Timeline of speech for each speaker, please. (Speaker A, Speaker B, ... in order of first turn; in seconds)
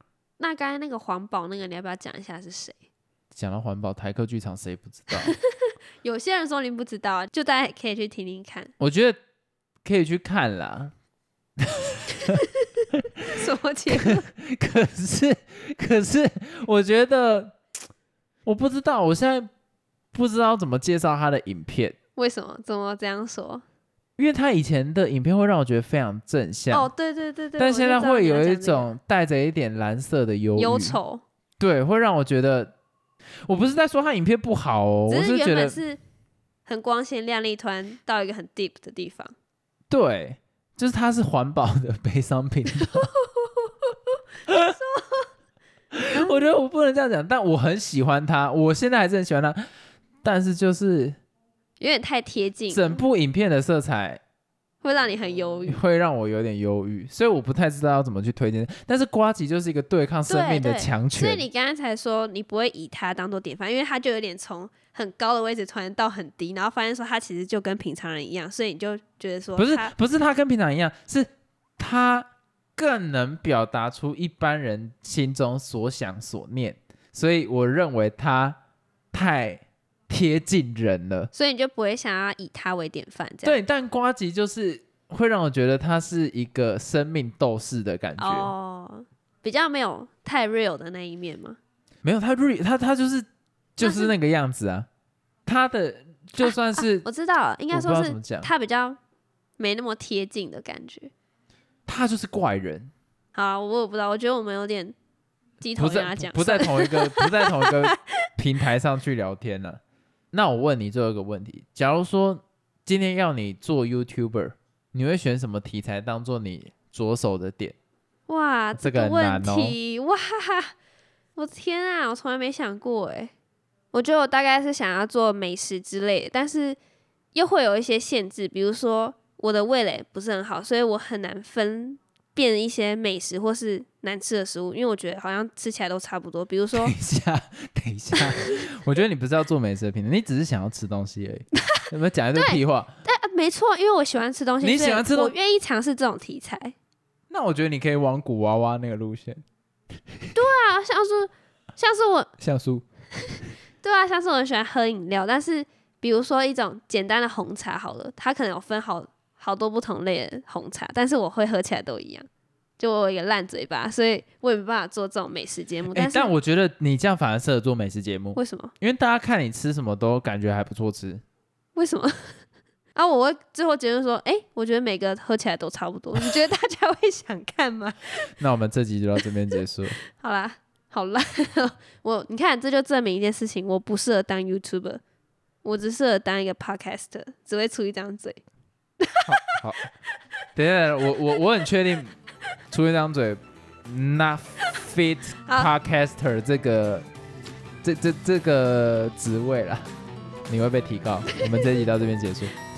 Speaker A: 0.4-2.8, 5.1-8.7, 12.2-14.3, 22.1-23.6, 26.7-28.9, 30.6-31.2, 35.1-36.0, 36.6-39.3, 42.8-43.9, 44.5-45.3, 46.1-46.5, 51.8-53.0, 54.8-55.8, 60.3-69.9, 81.3-83.6, 88.2-91.6, 93.8-94.1, 96.4-99.0, 99.6-101.1, 103.3-105.0, 105.6-108.0, 118.3-120.7, 121.3-123.3, 123.9-126.8, 127.3-136.9, 138.1-138.6, 142.3-146.7, 150.3-152.3, 153.2-162.3, 162.8-166.3, 168.3-168.7, 171.7-172.3, 172.9-178.3, 180.1-185.0, 185.6-188.4, 189.0-189.6, 195.4-195.7
Speaker B: 3.3-5.3, 8.8-9.2, 9.8-10.9, 11.6-12.4, 12.9-17.6, 18.4-19.5, 20.1-21.9, 24.2-26.9, 27.6-31.0, 31.6-32.7, 33.5-35.8, 39.9-43.1, 44.5-44.7, 45.9-49.6, 50.2-51.2, 52.7-54.2, 55.6-61.5, 69.5-78.6, 79.1-81.3, 83.4-88.5, 92.0-94.9, 95.5-97.1, 97.7-98.5, 101.9-102.9, 105.8-109.8, 110.3-117.7, 118.8-119.8, 136.7-142.9, 144.6-145.3, 147.3-149.4, 152.4-152.8, 165.9-171.2, 178.4-180.0, 189.2-189.9, 190.5-192.2, 192.7-197.1, 197.8-199.9, 200.5-202.5